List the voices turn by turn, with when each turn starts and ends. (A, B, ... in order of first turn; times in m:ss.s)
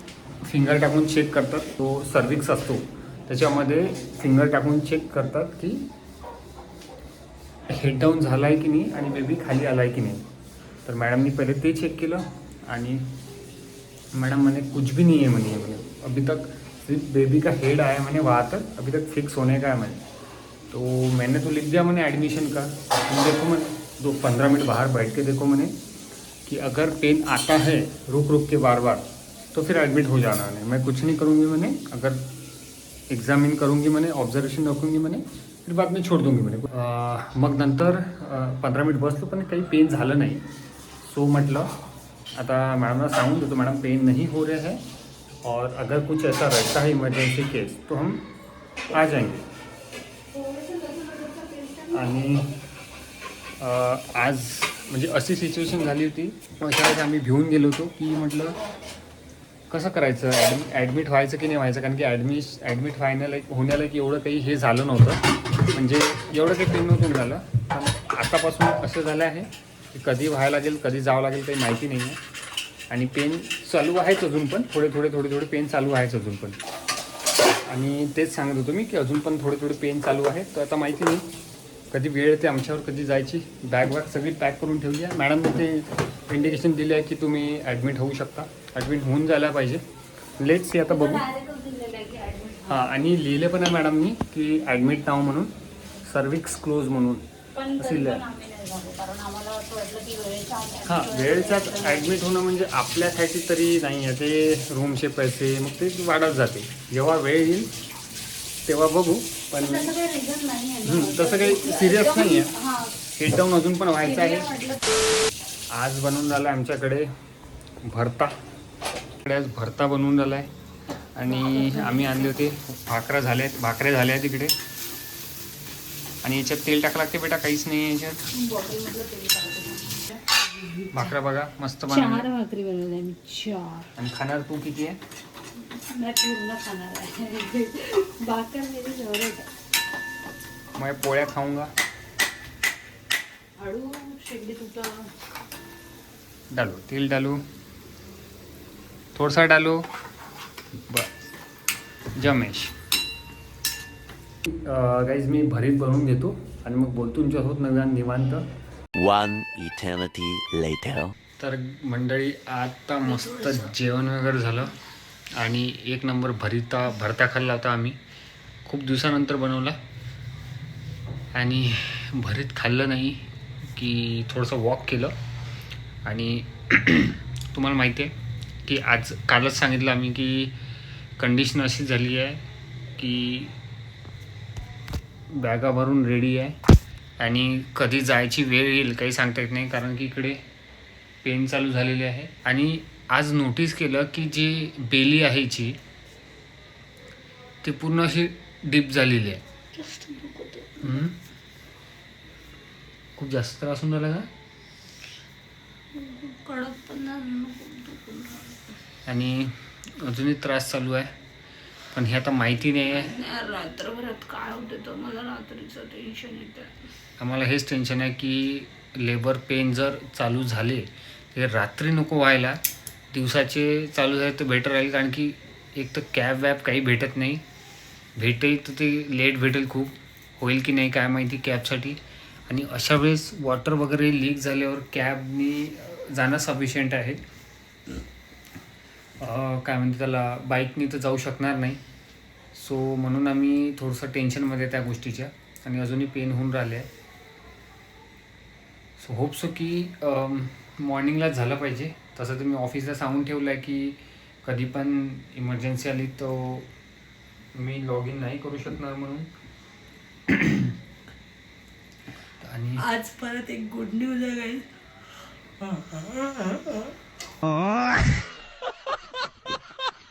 0:00.4-0:05.9 A
0:07.7-0:10.2 A
0:10.8-0:13.0 A
0:14.1-0:20.0 A
0:20.7-0:25.7 A
0:26.4-0:32.3 A
0:33.1-0:40.4 A
0:41.0-0:41.7 A
0:42.4-0:44.8 A
0:45.4-0:48.3 A
0:48.9-0:49.4 A
0:50.3-0:52.2 B
0:51.9-0:52.5 A
0:53.6-0:58.6 A
0:59.7-1:12.2 A
1:12.9-1:16.6 A
1:17.7-1:21.2 A
1:21.9-1:29.8 A
1:30.4-1:31.2 A
1:30.9-1:33.0 B
1:32.7-1:35.5 A
1:36.0-1:37.2 A
1:37.5-1:42.2 B
1:37.8-1:38.2 A
1:40.8-1:47.7 A
1:48.6-1:49.9 A
1:49.6-1:53.0 B
1:50.8-1:52.5 A
1:53.0-1:54.5 A
1:54.0-1:54.8 B
1:55.7-1:57.1 A
1:57.8-1:58.3 A
1:59.2-2:00.5 A
2:01.1-2:04.5 A
2:01.2-2:02.4 B
2:06.2-2:08.2 A
2:08.3-2:11.1 B
2:10.9-2:12.3 A
2:11.9-2:13.9 B
2:14.0-2:15.0 A
2:15.6-2:19.5 B
2:20.8-2:21.7 A
2:23.6-2:25.1 B
2:26.5-2:27.4 A
2:29.1-2:29.9 A
2:30.9-2:31.2 A
2:32.1-2:32.7 A
2:34.4-2:38.4 A
2:38.9-2:41.1 C
2:41.4-2:44.8 A
2:43.0-2:43.8 B
2:45.4-2:48.0 A
2:48.6-2:49.8 A
2:51.3-2:55.1 A
2:56.0-2:58.1 A
2:58.6-3:00.6 A
3:01.2-3:02.4 A
3:03.0-3:03.5 A
3:05.3-3:06.6 A
3:07.2-3:10.4 A
3:11.2-3:15.8 A
3:17.6-3:19.4 A
3:19.7-3:21.0 B
3:20.8-3:21.2 A
3:23.2-3:24.3 A
3:25.9-3:28.7 B
3:29.0-3:31.1 A
3:31.9-3:33.2 A
3:32.9-3:36.8 B
3:37.2-3:42.6 A
3:43.1-3:47.4 A
3:48.2-3:57.2 A
3:59.2-4:01.8 A
4:02.5-4:06.9 A
4:09.0-4:16.7 A
4:17.5-4:19.3 A
4:20.3-4:20.8 A
4:22.4-4:22.8 A
4:22.8-4:24.6 B
4:25.6-4:26.7 B